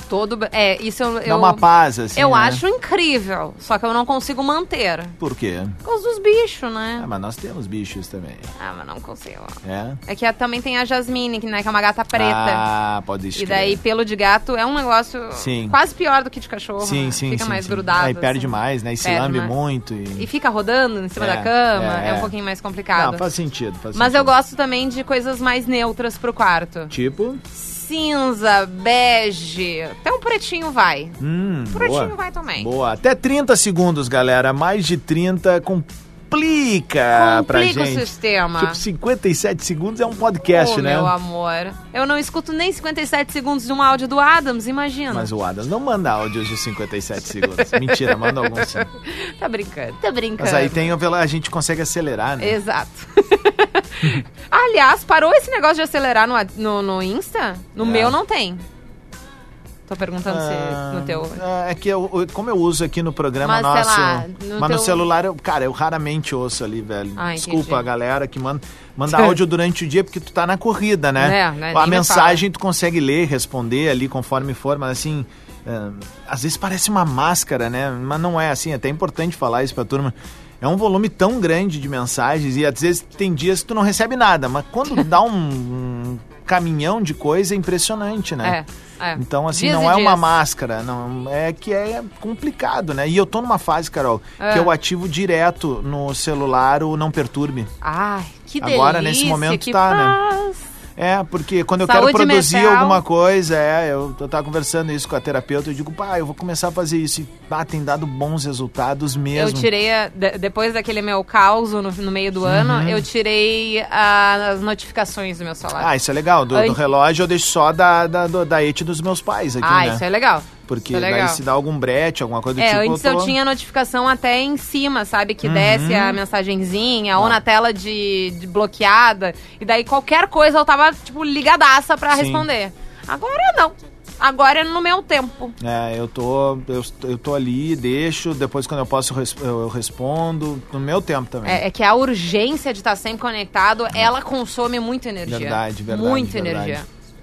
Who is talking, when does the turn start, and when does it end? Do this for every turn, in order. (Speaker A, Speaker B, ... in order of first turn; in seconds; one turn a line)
Speaker A: 0.1-1.6
Speaker B: 1.2-2.6
Speaker A: 2.1-5.2
Speaker B: 5.2-5.8
Speaker A: 5.8-7.1
Speaker B: 7.0-8.5
Speaker A: 8.6-12.7
Speaker B: 9.6-10.0
Speaker B: 12.1-13.8
Speaker A: 13.3-19.5
Speaker B: 15.4-15.8
Speaker B: 16.8-20.3
Speaker A: 20.1-23.2
Speaker B: 21.2-22.3
Speaker B: 22.9-24.3
Speaker A: 23.9-26.9
Speaker B: 26.9-27.4
Speaker A: 27.5-31.2
Speaker B: 31.2-41.1
Speaker A: 31.7-32.7
Speaker A: 37.1-38.8
Speaker A: 40.5-45.3
Speaker B: 45.1-48.9
Speaker A: 47.6-50.9
Speaker B: 50.4-52.6
Speaker A: 52.4-58.6
Speaker B: 57.8-58.2
Speaker A: 59.9-61.4
Speaker B: 60.3-88.6
Speaker A: 63.4-65.0
Speaker A: 67.2-67.8
Speaker A: 71.2-72.4
Speaker A: 88.4-90.3
Speaker B: 89.2-97.7
Speaker A: 94.4-94.7
Speaker A: 97.8-100.6
Speaker B: 98.6-100.2
Speaker B: 101.0-109.7
Speaker A: 101.9-103.0
Speaker A: 109.3-115.9
Speaker B: 112.4-113.1
Speaker B: 115.8-120.0
Speaker A: 116.5-116.8
Speaker A: 119.6-121.4
Speaker B: 120.7-123.3
Speaker A: 122.6-135.6
Speaker B: 125.4-126.2
Speaker B: 132.1-132.5
Speaker B: 135.6-141.6
Speaker A: 141.4-146.9
Speaker B: 145.3-146.8